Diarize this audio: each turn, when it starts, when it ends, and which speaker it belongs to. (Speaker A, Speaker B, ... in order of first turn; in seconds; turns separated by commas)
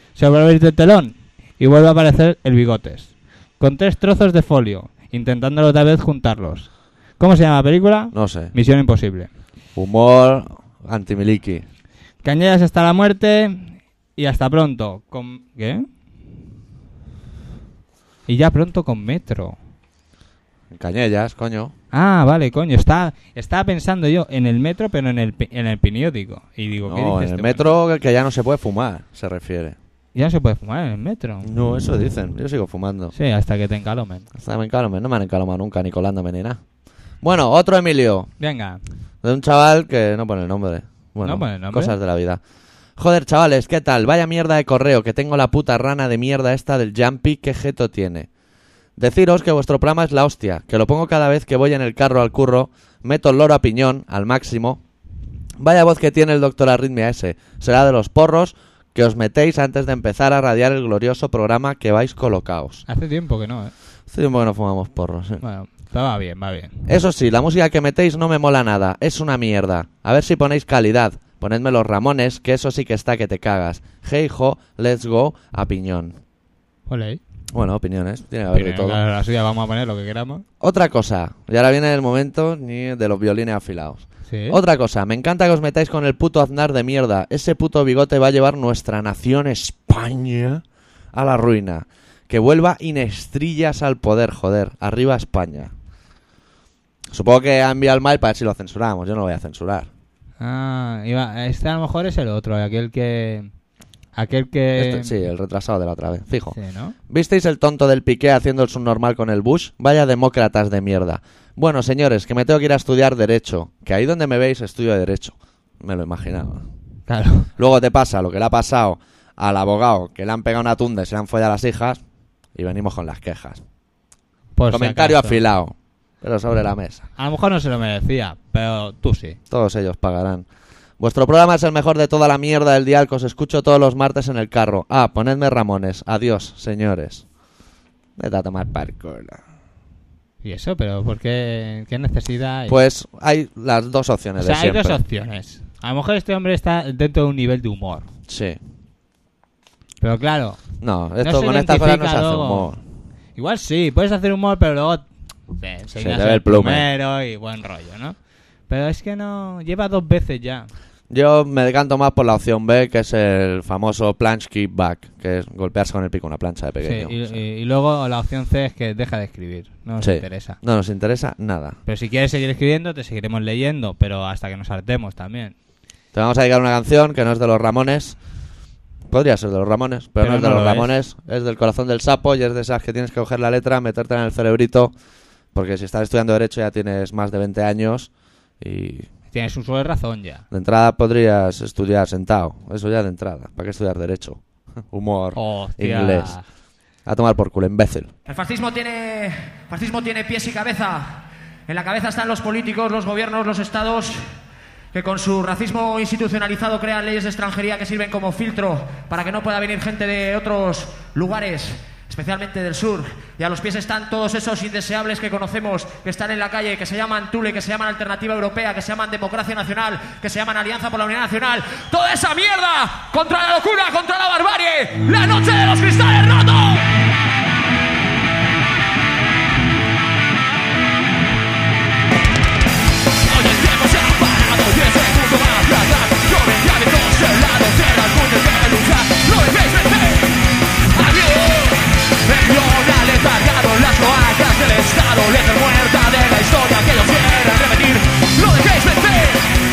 Speaker A: 0.1-9.3, Speaker B: 8.1-8.5, Speaker B: 9.8-11.7, Speaker A: 12.2-15.9, Speaker A: 18.3-19.6, Speaker B: 20.7-21.7, Speaker A: 21.9-27.7, Speaker B: 26.9-29.8, Speaker A: 30.1-31.5, Speaker B: 31.4-33.1, Speaker A: 33.1-34.3, Speaker B: 34.4-36.6, Speaker B: 37.2-38.3, Speaker A: 38.4-38.8, Speaker B: 39.2-42.4, Speaker A: 41.2-42.0, Speaker B: 43.0-48.3, Speaker B: 49.0-54.8, Speaker B: 55.6-62.8, Speaker A: 62.9-63.7, Speaker B: 64.1-65.4, Speaker A: 65.4-66.9, Speaker B: 66.9-76.2, Speaker A: 76.9-77.2, Speaker B: 77.5-79.0, Speaker A: 78.5-80.4, Speaker B: 80.6-95.7, Speaker A: 84.3-84.6, Speaker B: 97.1-99.9, Speaker A: 100.4-103.5, Speaker A: 104.2-105.2, Speaker B: 104.8-106.6, Speaker A: 106.5-107.0, Speaker B: 107.1-116.7, Speaker A: 117.1-117.5, Speaker B: 117.6-122.0, Speaker B: 122.5-123.6, Speaker A: 124.6-125.4, Speaker B: 124.7-127.1, Speaker A: 127.2-129.4, Speaker B: 129.5-130.5, Speaker B: 131.0-137.2, Speaker B: 138.2-139.4, Speaker A: 140.4-142.8, Speaker B: 142.7-145.0, Speaker A: 144.4-148.1, Speaker B: 148.3-148.6, Speaker A: 150.0-150.6, Speaker B: 150.8-152.8, Speaker A: 151.2-152.7, Speaker A: 153.4-158.2, Speaker B: 156.0-156.9, Speaker A: 158.7-160.7, Speaker B: 161.1-167.4, Speaker A: 166.8-170.6, Speaker B: 170.0-171.8, Speaker A: 171.9-175.6, Speaker B: 176.1-178.2, Speaker B: 179.1-184.9, Speaker A: 180.2-180.9, Speaker B: 185.5-188.1, Speaker B: 188.6-189.1, Speaker A: 189.3-190.4, Speaker B: 190.5-196.4, Speaker A: 195.3-196.4, Speaker B: 197.1-198.1, Speaker C: 198.3-204.2, Speaker C: 204.9-226.9, Speaker C: 233.2-240.3, Speaker C: 240.9-249.5